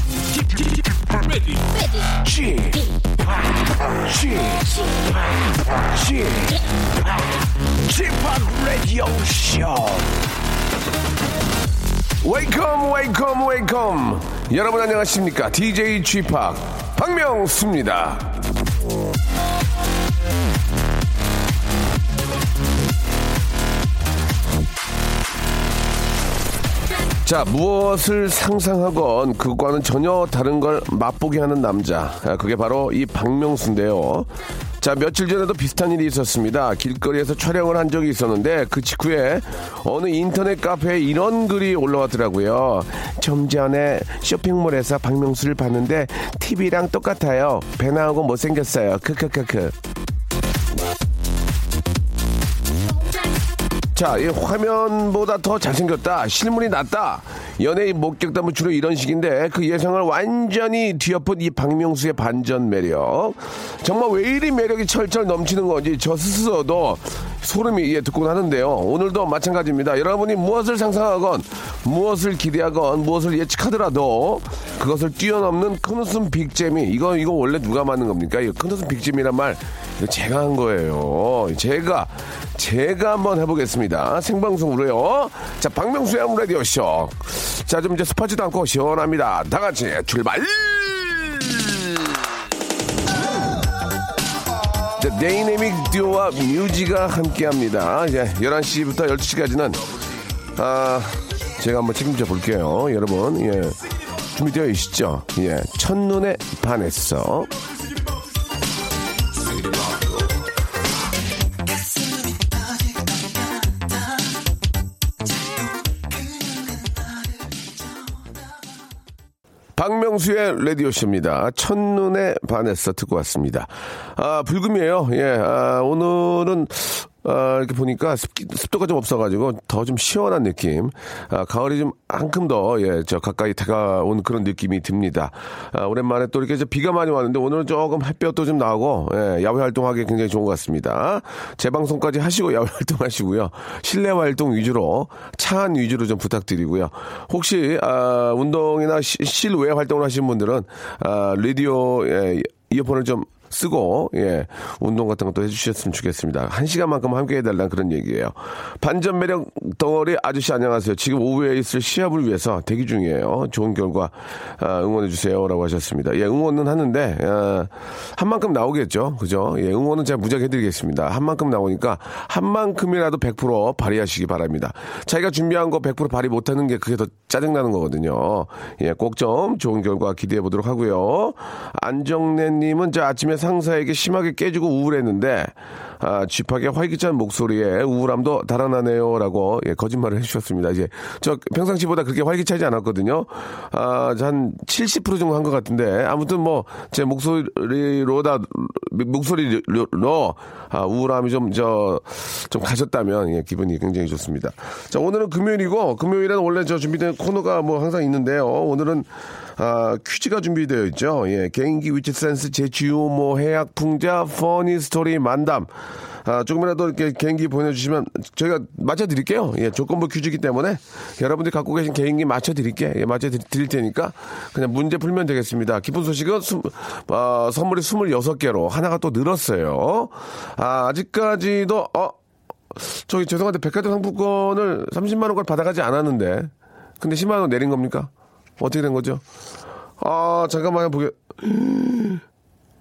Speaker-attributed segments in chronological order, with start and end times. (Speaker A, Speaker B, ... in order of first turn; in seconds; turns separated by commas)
Speaker A: 0.2-10.2, Speaker A: 12.2-18.5, Speaker A: 27.2-34.3, Speaker A: 34.8-49.8, Speaker A: 53.9-92.1, Speaker A: 95.0-99.8, Speaker A: 100.5-103.8, Speaker A: 104.3-107.5, Speaker A: 119.8-215.7, Speaker A: 216.2-232.1, Speaker A: 232.7-239.2, Speaker A: 240.0-242.2